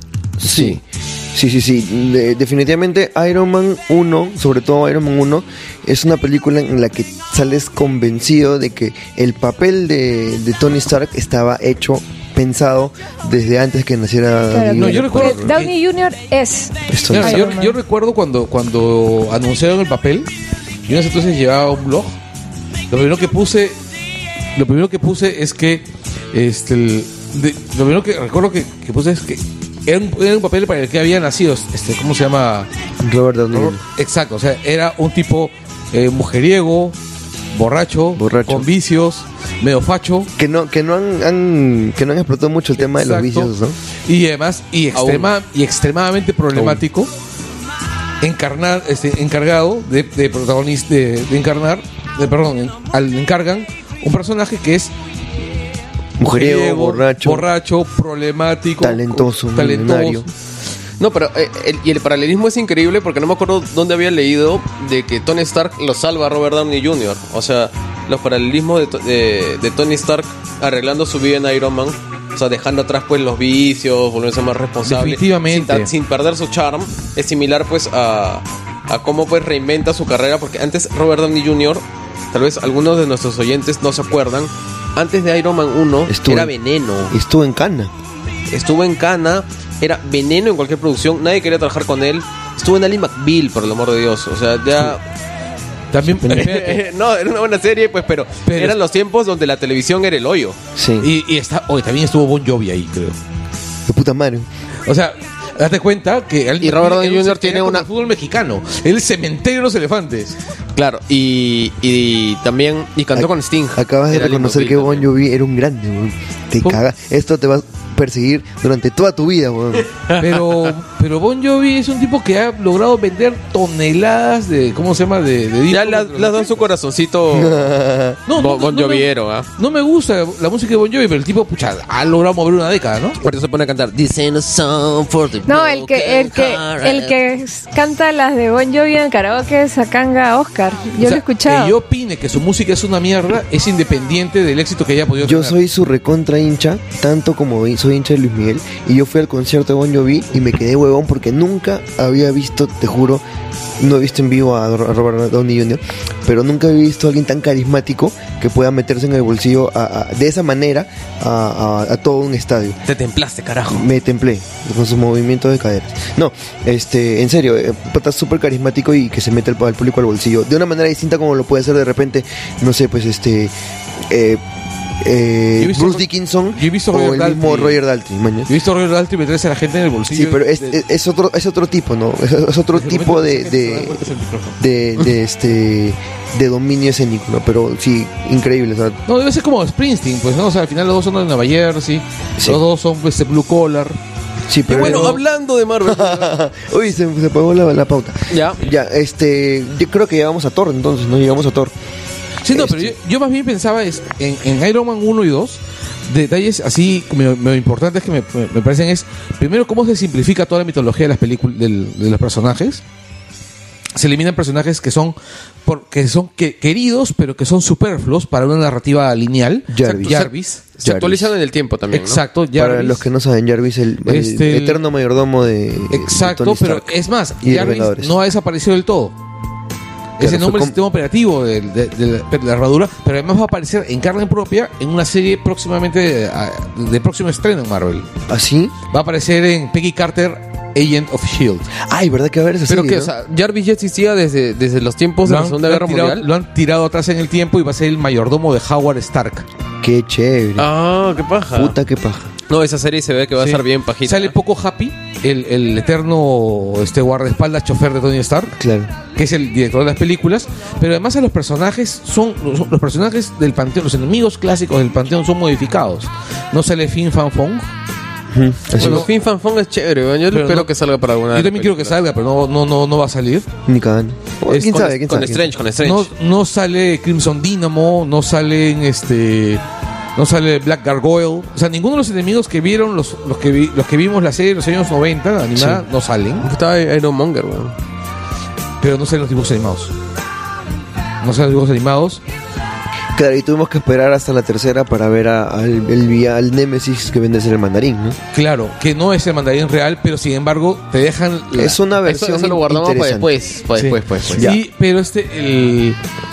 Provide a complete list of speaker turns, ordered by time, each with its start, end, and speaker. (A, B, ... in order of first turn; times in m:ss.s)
0:00.4-0:15.6 A
0:00.4-0:00.8 B
0:14.5-0:17.8 C
0:14.7-0:15.7 D
0:16.9-0:17.5 A
0:17.1-0:20.3 D
0:20.8-0:22.2 D
0:22.9-0:23.8 D
0:24.5-0:32.7 D
0:33.0-0:33.8 A
0:33.5-0:37.0 D
0:37.5-0:40.3 D
0:38.2-0:38.7 A
0:40.4-0:43.8 A
0:42.8-0:43.5 D
0:44.0-0:47.1 D
0:44.9-0:45.3 B
0:46.5-0:46.8 B
0:48.2-0:54.9 D
0:56.2-0:57.4 A
0:56.2-1:00.3 D
0:58.8-1:00.3 A
1:01.0-1:27.1 B
1:14.8-1:15.9 D
1:26.1-1:26.5 A
1:27.1-1:27.9 A
1:28.5-1:35.0 B
1:35.9-1:36.8 D
1:36.1-1:40.6 B
1:38.5-1:38.8 D
1:40.8-1:41.1 A
1:41.0-1:43.2 D
1:43.9-1:44.5 A
1:44.8-1:50.4 D
1:46.6-1:47.8 B
1:50.7-1:55.1 B
1:53.1-1:59.9 A
1:59.9-2:00.7 B
2:00.2-2:06.6 D
2:05.7-2:07.7 B
2:07.3-2:08.2 A
2:08.3-2:13.2 D
2:08.3-2:09.5 B
2:13.2-2:17.2 B
2:15.4-2:21.8 C
2:21.0-2:25.6 D
2:25.2-2:33.2 A
2:33.8-2:42.8 A
2:42.9-2:43.8 B
2:43.7-2:53.5 A
2:54.0-2:54.4 A
2:55.0-2:58.5 A
2:55.6-2:57.8 D
2:58.5-3:00.8 D
3:00.1-3:04.1 A
3:02.7-3:04.6 D
3:04.6-3:09.0 A
3:09.1-3:14.0 D
3:14.5-3:15.2 A
3:14.7-3:16.4 B
3:14.7-3:15.2 D
3:15.8-3:21.7 A
3:18.3-3:18.6 B
3:22.4-3:32.8 D
3:22.5-3:22.9 A
3:33.9-3:40.6 D
3:39.7-3:40.3 A
3:39.8-3:42.2 B
3:40.8-3:41.3 A
3:41.9-3:43.1 D
3:42.5-3:48.1 A
3:44.0-3:44.8 D
3:45.9-3:49.1 D
3:50.2-3:58.1 D
3:50.2-3:50.8 A
3:58.3-3:58.8 A
3:58.9-4:01.7 D
4:01.7-4:03.1 A
4:02.7-4:06.3 B
4:05.2-4:09.4 D
4:09.8-4:10.7 A
4:10.6-4:11.8 B
4:11.5-4:12.3 A
4:12.5-4:14.3 B
4:13.4-4:18.5 D
4:18.6-4:18.9 A
4:19.1-4:27.7 D
4:28.3-4:29.1 A
4:28.8-4:32.0 B
4:28.8-4:29.1 D
4:30.3-4:30.7 D
4:31.3-4:33.5 D
4:33.6-4:35.5 A
4:34.5-4:34.9 D
4:34.6-4:36.1 B
4:35.8-4:39.6 D
4:40.2-4:46.5 D
4:46.4-4:47.7 B
4:48.8-4:49.9 D
4:51.2-4:52.2 D
4:53.2-4:58.2 A
4:58.3-5:01.8 D
5:01.5-5:03.3 A
5:02.0-5:04.5 B
5:03.8-5:06.0 D
5:04.3-5:04.6 A